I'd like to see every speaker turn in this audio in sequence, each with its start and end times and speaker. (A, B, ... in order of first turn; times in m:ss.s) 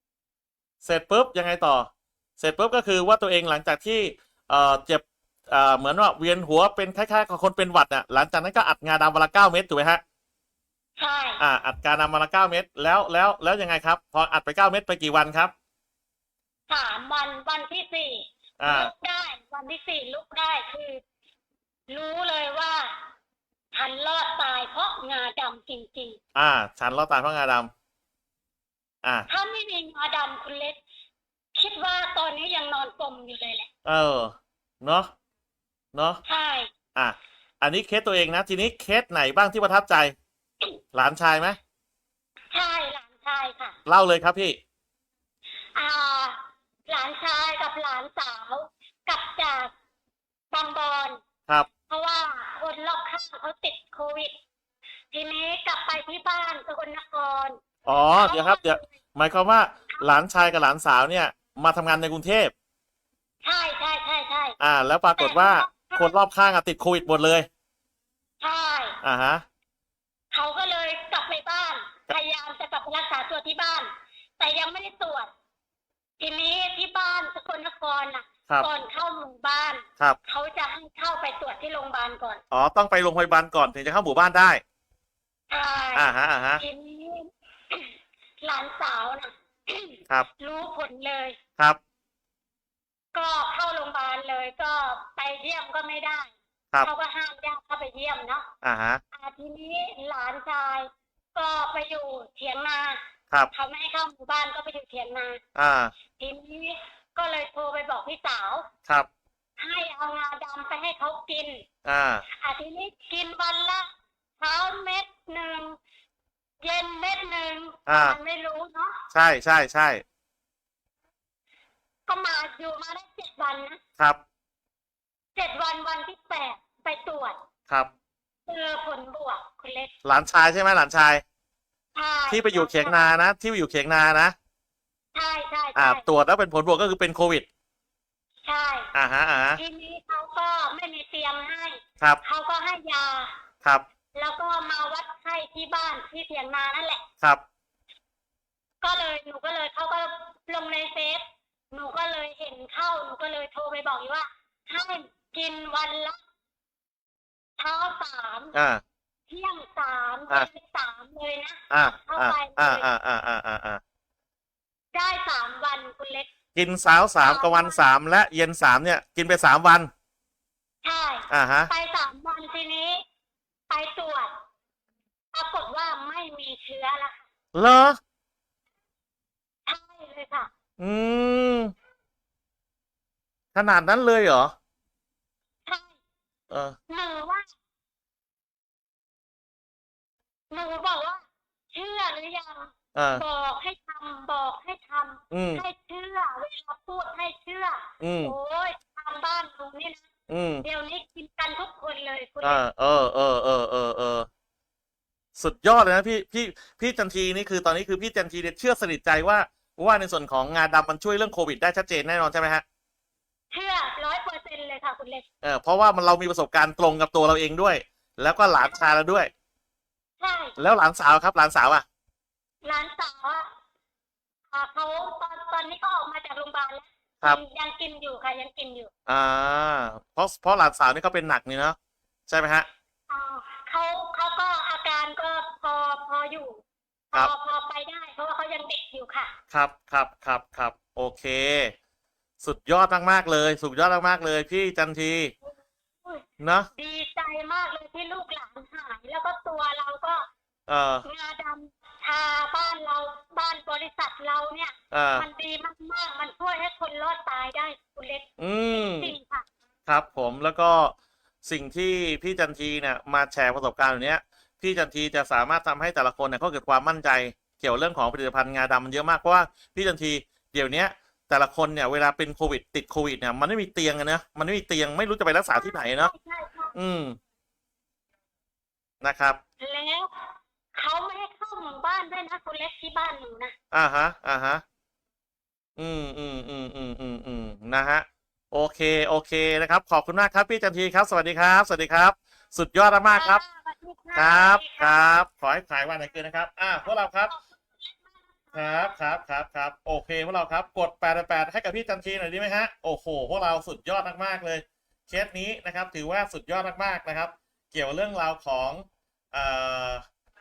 0:00.8-0:10.0 A
0:11.0-0:11.4 B
0:11.4-0:15.5 A
0:16.7-0:21.0 B
0:18.6-0:18.9 A
0:21.9-0:23.0 B
0:23.7-0:26.2 B
0:26.4-0:27.7 A
0:29.0-0:29.3 A
0:29.3-0:30.8 B
0:31.5-0:33.7 B
0:33.8-0:35.1 A
0:35.9-0:36.2 A
0:36.2-0:36.7 B
0:36.9-0:40.1 A
0:40.9-0:41.6 A
0:42.5-0:43.8 B
0:43.9-0:44.6 A
0:45.7-0:49.7 B
0:50.5-0:51.2 B
0:51.9-0:54.4 B
0:55.1-0:58.9 B
0:57.8-1:02.5 A
1:03.4-1:04.6 B
1:04.6-1:07.5 A
1:05.2-1:06.1 B
1:08.4-1:09.0 B
1:09.0-1:09.4 A
1:10.3-1:15.3 B
1:16.2-1:22.4 B
1:22.5-1:24.6 A
1:25.5-1:31.4 B
1:25.9-1:26.6 A
1:33.1-1:38.5 B
1:38.6-1:39.0 A
1:39.1-1:43.0 B
1:43.5-1:45.4 B
1:45.5-1:45.9 A
1:46.2-1:48.7 B
1:49.6-1:51.6 B
1:51.8-1:52.2 A
1:52.4-1:53.9 B
1:54.4-1:55.8 B
1:56.6-1:59.0 B
1:57.9-1:58.2 A
1:59.1-2:00.0 A
2:02.1-2:03.8 B
2:05.3-2:07.4 B
2:08.5-2:09.9 B
2:10.0-2:11.2 A
2:11.9-2:13.0 B
2:12.3-2:14.3 A
2:15.1-2:16.0 B
2:15.7-2:17.4 A
2:18.4-2:18.9 B
2:18.9-2:19.6 A
2:19.6-2:23.4 B
2:24.1-2:27.0 B
2:28.8-2:36.2 B
2:37.6-2:38.6 B
2:38.5-2:38.8 A
2:39.3-2:42.9 B
2:41.7-2:43.8 A
2:44.9-2:46.3 B
2:46.5-2:49.9 A
2:47.2-2:47.8 B
2:50.8-2:53.0 B
2:51.3-2:51.7 A
2:53.7-2:54.3 B
2:55.3-2:57.2 B
2:57.5-2:58.0 A
2:59.6-3:00.5 B
3:00.8-3:01.7 A
3:03.5-3:04.5 A
3:05.6-3:06.0 B
3:06.5-3:06.8 A
3:06.9-3:07.5 B
3:10.5-3:20.1 B
3:12.9-3:13.2 A
3:15.3-3:15.6 A
3:18.0-3:18.3 A
3:20.3-3:20.6 A
3:20.6-3:22.6 B
3:22.4-3:24.3 A
3:25.4-3:32.6 A
3:33.5-3:35.2 B
3:35.4-3:39.3 A
3:40.2-3:40.6 B
3:40.6-3:41.8 A
3:42.6-3:43.5 B
3:44.5-3:48.9 B
3:49.1-3:51.8 A
3:52.3-3:52.7 A
3:53.1-3:59.3 B
3:59.5-4:01.7 A
4:02.4-4:05.3 A
4:06.4-4:06.7 A
4:06.7-4:10.3 B
4:10.7-4:11.0 A
4:11.0-4:19.5 B
4:14.9-4:15.2 A
4:18.4-4:19.1 A
4:19.9-4:36.1 A
4:35.5-4:36.7 B
4:36.7-4:37.2 A
4:39.0-4:39.4 A
4:39.6-4:43.5 B
4:43.7-4:44.6 A
4:45.8-4:53.4 A
4:53.1-4:55.1 B
4:54.2-4:57.3 A
4:56.8-4:58.9 B
4:58.5-5:10.0 A